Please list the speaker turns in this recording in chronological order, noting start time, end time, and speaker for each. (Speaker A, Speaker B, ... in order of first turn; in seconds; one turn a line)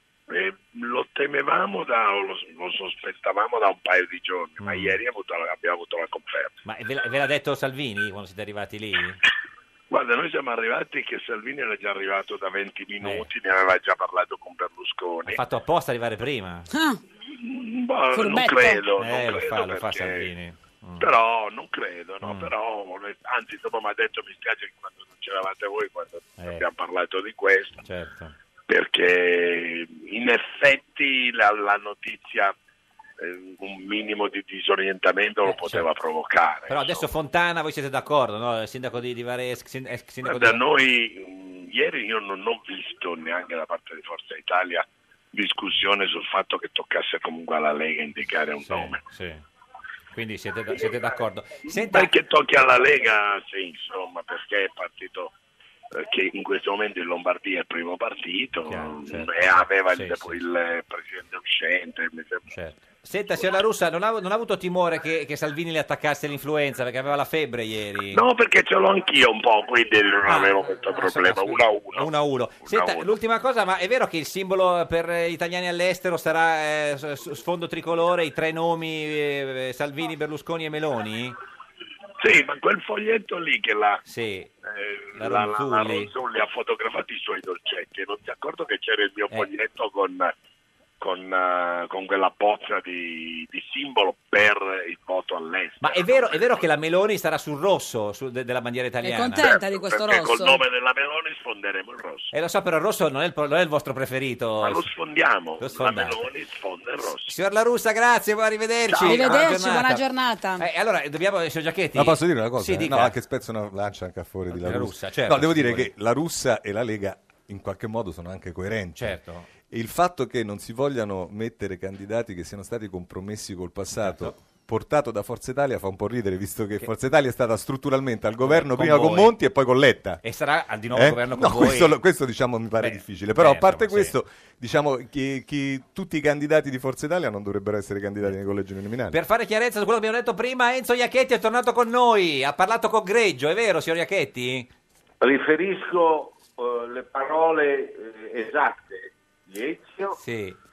Speaker A: 0.3-6.6
Speaker B: 4.6-5.0
Speaker B: 6.7-9.2
Speaker A: 9.9-15.4
Speaker B: 13.0-13.3
Speaker B: 15.2-16.7
Speaker C: 16.7-17.0
Speaker A: 17.4-20.3
Speaker C: 18.1-18.8
Speaker B: 19.0-21.1
Speaker A: 21.0-27.8
Speaker B: 22.2-22.5
Speaker B: 26.4-26.6
Speaker B: 27.8-28.3
Speaker A: 28.7-32.5
Speaker A: 33.2-37.0
Speaker B: 35.4-35.9
Speaker B: 36.7-40.6
Speaker A: 40.2-49.0
Speaker B: 48.6-49.4
Speaker B: 50.1-52.1
Speaker A: 51.6-55.3
Speaker A: 55.9-62.5
Speaker B: 58.6-60.4
Speaker B: 62.5-68.2
Speaker A: 68.1-72.1
Speaker B: 70.2-81.4
Speaker A: 72.6-73.1
Speaker A: 82.2-84.0
Speaker B: 84.0-84.5
Speaker A: 84.7-90.3
Speaker B: 85.2-86.1
Speaker A: 91.0-96.5
Speaker B: 95.8-99.5
Speaker C: 99.0-100.6
Speaker A: 99.4-102.3
Speaker B: 102.3-104.8
Speaker A: 104.6-107.3
Speaker B: 105.6-106.2
Speaker B: 107.3-110.0
Speaker A: 108.9-109.2
Speaker C: 109.0-110.7
Speaker B: 110.6-113.1
Speaker D: 111.9-119.2
Speaker B: 114.5-115.9
Speaker B: 119.0-119.5
Speaker D: 119.7-130.2
Speaker B: 124.0-124.3
Speaker B: 128.4-129.3
Speaker B: 130.2-132.0
Speaker D: 130.9-139.2
Speaker B: 132.8-134.2
Speaker B: 139.1-144.7
Speaker E: 145.2-150.2
Speaker B: 150.2-150.6